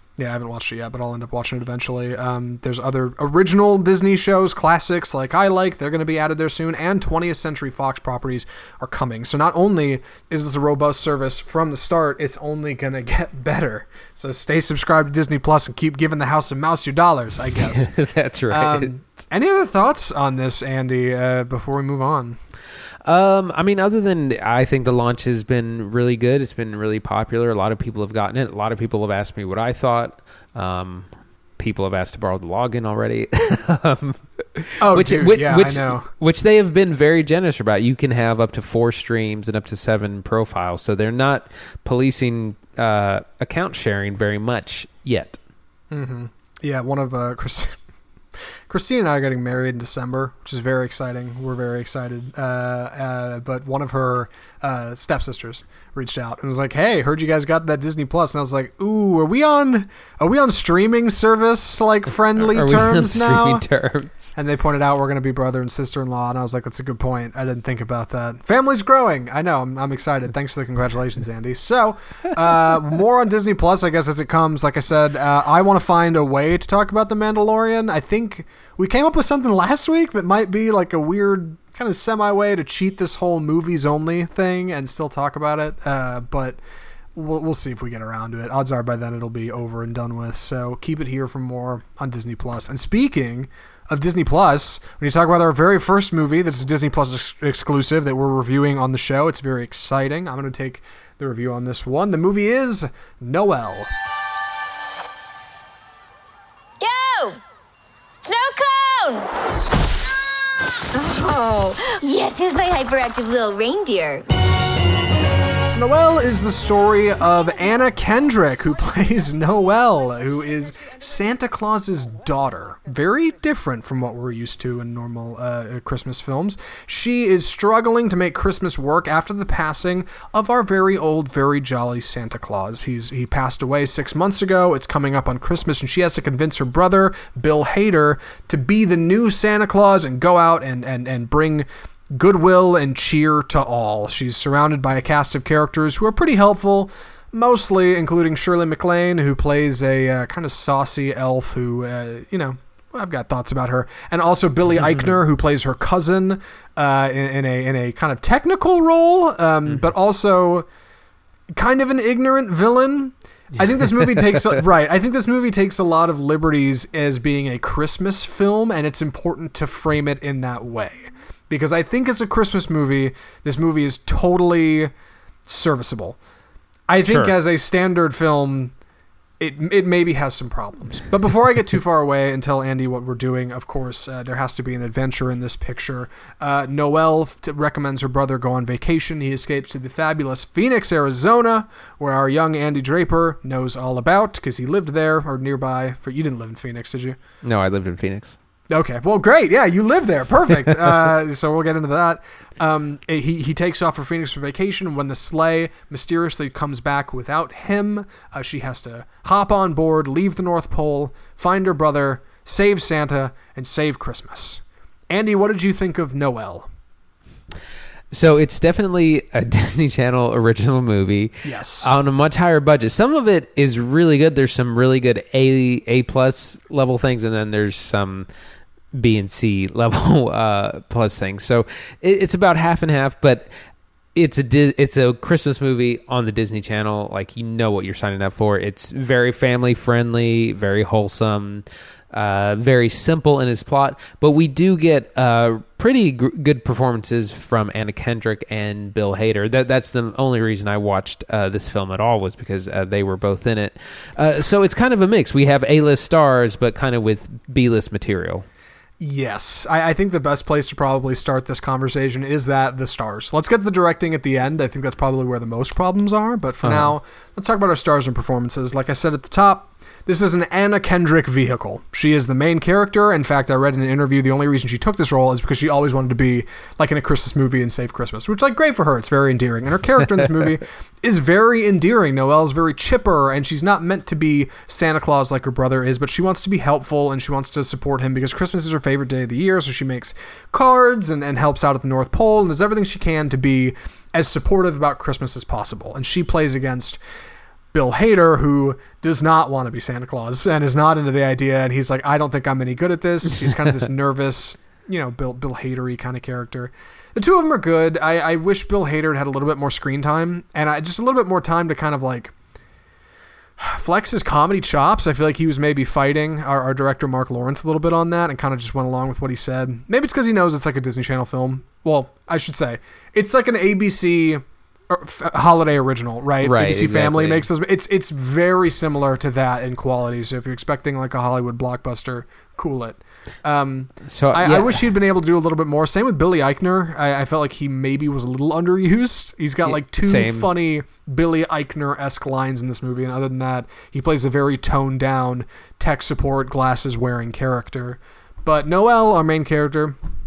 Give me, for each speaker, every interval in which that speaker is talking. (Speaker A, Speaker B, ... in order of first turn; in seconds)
Speaker A: 0.2-17.9, 18.5-22.4, 34.8-36.1, 45.9-47.8, 48.7-63.6, 64.3-86.6, 87.1-103.9, 115.7-160.7, 161.5-174.9, 175.4-176.2, 176.9-178.7, 179.4-197.2, 198.7-216.7, 221.4-221.9, 259.0-297.0, 297.7-312.3, 313.6-349.9
Speaker B: 17.6-18.9, 23.0-31.1, 31.6-45.4, 62.4-64.3, 177.0-177.3, 197.4-198.4, 218.1-228.3, 228.9-233.5, 234.1-258.4, 266.6-266.9, 326.4-327.4, 334.0-334.8, 339.6-340.5
Speaker C: 106.8-107.4, 108.2-109.3, 110.9-114.3